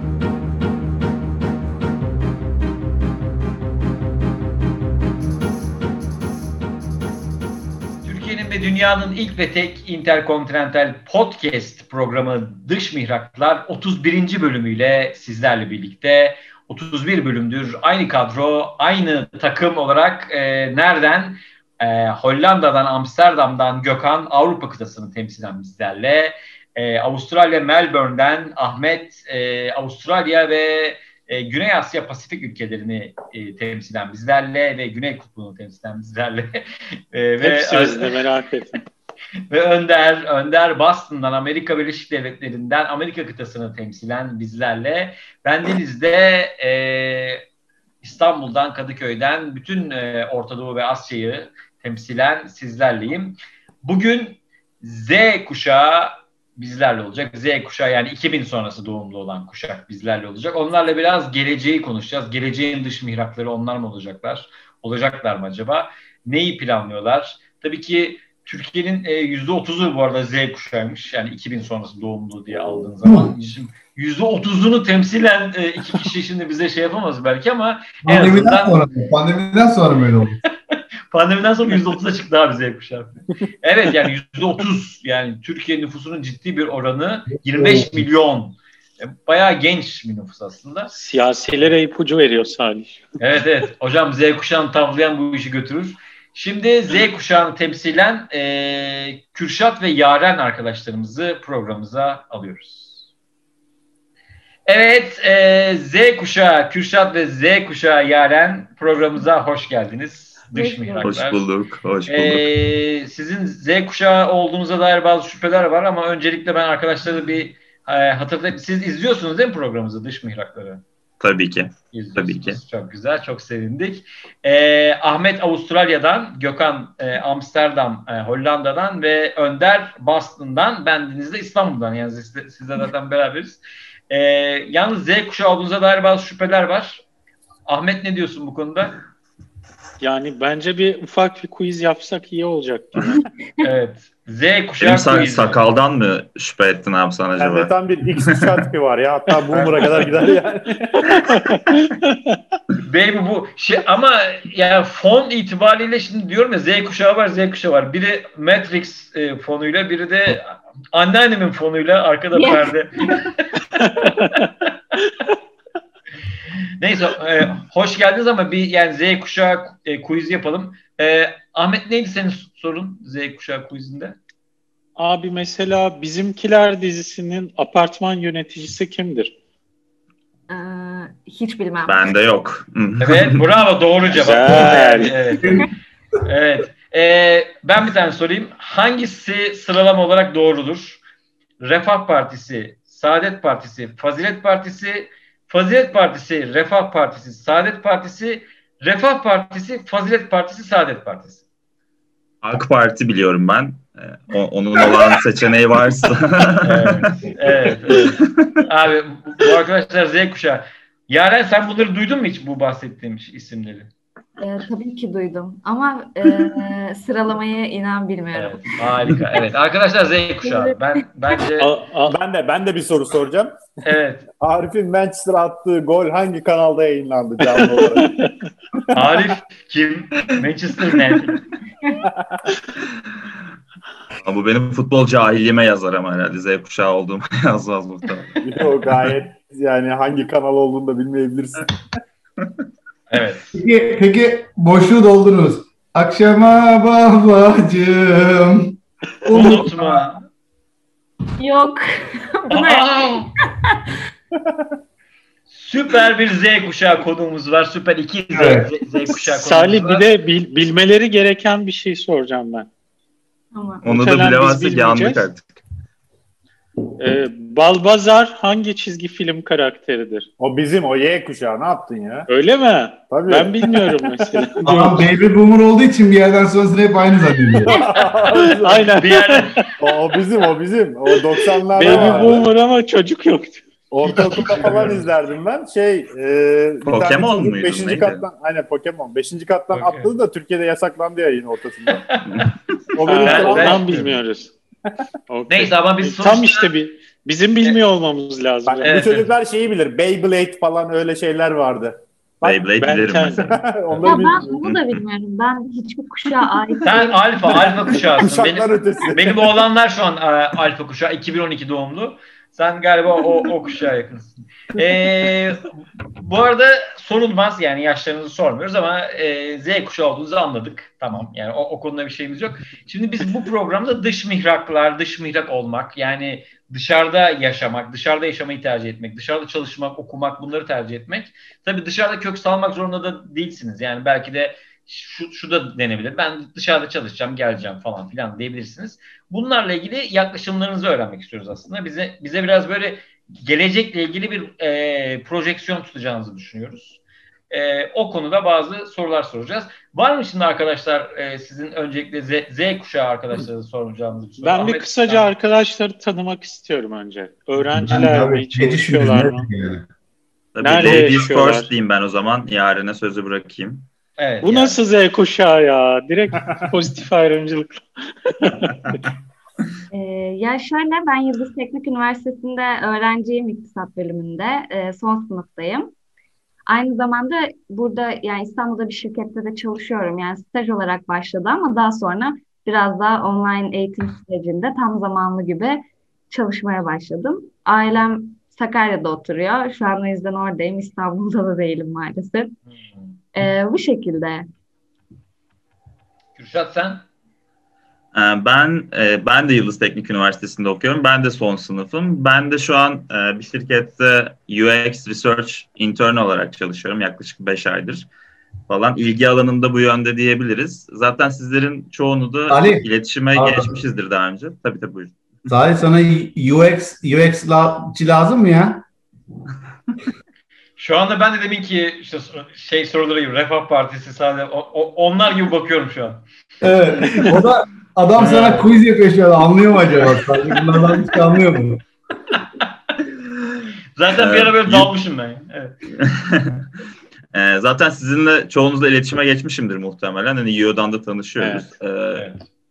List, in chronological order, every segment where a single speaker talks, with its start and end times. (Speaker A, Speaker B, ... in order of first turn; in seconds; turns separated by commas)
Speaker A: 8.0-36.6, Speaker A: 37.1-38.2, Speaker B: 37.4-38.8, Speaker A: 39.5-47.4, Speaker A: 48.0-78.8, Speaker C: 73.0-73.3, Speaker C: 78.0-80.4, Speaker A: 81.1-90.9, Speaker C: 87.4-88.1, Speaker B: 90.9-93.1, Speaker A: 93.2-103.0, Speaker A: 104.7-111.5, Speaker D: 110.5-111.1, Speaker E: 111.0-112.5, Speaker A: 112.1-120.8, Speaker E: 121.2-122.6, Speaker A: 121.9-137.0, Speaker A: 137.7-139.0, Speaker B: 140.0-143.2, Speaker A: 143.6-145.6, Speaker E: 144.8-148.5, Speaker F: 147.4-151.4, Speaker B: 149.5-150.1, Speaker B: 151.1-152.4, Speaker A: 152.8-163.3, Speaker D: 162.3-163.3, Speaker B: 163.8-164.4, Speaker A: 164.0-164.7, Speaker A: 166.8-174.2, Speaker B: 175.0-179.3, Speaker D: 180.5-182.1, Speaker E: 181.9-183.4, Speaker A: 183.0-185.6, Speaker B: 184.2-185.2, Speaker C: 185.4-185.7, Speaker A: 186.2-191.0, Speaker A: 191.6-201.4, Speaker E: 202.4-208.6, Speaker A: 206.6-213.9, Speaker D: 214.4-218.6, Speaker A: 218.3-221.7, Speaker D: 220.4-220.8, Speaker B: 221.6-222.2, Speaker F: 222.1-223.7, Speaker A: 223.8-224.3, Speaker F: 224.4-228.1, Speaker B: 227.5-228.3, Speaker F: 228.8-229.1, Speaker A: 228.9-231.5, Speaker F: 232.0-232.5, Speaker E: 234.2-238.9, Speaker F: 238.4-241.8, Speaker A: 243.1-243.5, Speaker C: 243.5-250.2, Speaker A: 249.3-250.2, Speaker D: 251.4-253.8, Speaker A: 252.5-253.3, Speaker A: 255.5-260.1, Speaker C: 258.3-258.7, Speaker B: 259.2-262.7, Speaker D: 263.5-263.9, Speaker E: 263.8-265.6, Speaker B: 263.9-265.3, Speaker B: 267.0-270.3, Speaker F: 270.4-272.3, Speaker B: 272.3-275.1, Speaker F: 273.1-273.9, Speaker C: 274.7-277.8, Speaker F: 277.6-279.0, Speaker B: 278.3-279.7, Speaker A: 279.0-279.7, Speaker F: 279.8-282.4, Speaker B: 281.1-283.7, Speaker A: 281.8-282.2, Speaker F: 283.9-292.0, Speaker A: 284.0-285.0, Speaker E: 286.9-288.3, Speaker A: 289.7-290.1, Speaker A: 291.9-292.5, Speaker E: 292.3-292.6, Speaker F: 293.0-294.0, Speaker B: 293.0-294.5, Speaker A: 293.2-294.2, Speaker B: 295.3-299.1, Speaker A: 295.5-296.7, Speaker F: 298.6-304.6, Speaker A: 298.8-299.3, Speaker E: 302.4-304.8, Speaker B: 302.8-303.6, Speaker D: 304.0-308.0, Speaker A: 306.8-355.3, Speaker F: 308.1-309.6, Speaker B: 354.4-359.5, Speaker C: 357.8-359.9, Speaker E: 360.6-363.9, Speaker B: 360.6-361.7, Speaker A: 364.2-364.8, Speaker B: 364.4-368.8, Speaker D: 369.9-375.9, Speaker D: 376.7-392.6, Speaker A: 392.8-393.2, Speaker D: 393.4-394.5, Speaker A: 396.4-397.1, Speaker E: 398.1-408.1, Speaker E: 408.7-415.2, Speaker C: 412.5-413.8, Speaker C: 415.5-418.9, Speaker A: 420.8-426.2, Speaker C: 426.6-431.8, Speaker A: 428.2-428.7, Speaker A: 434.0-435.8, Speaker E: 434.1-434.9, Speaker E: 436.0-436.7, Speaker E: 437.3-442.3, Speaker B: 441.4-441.7, Speaker A: 442.1-442.5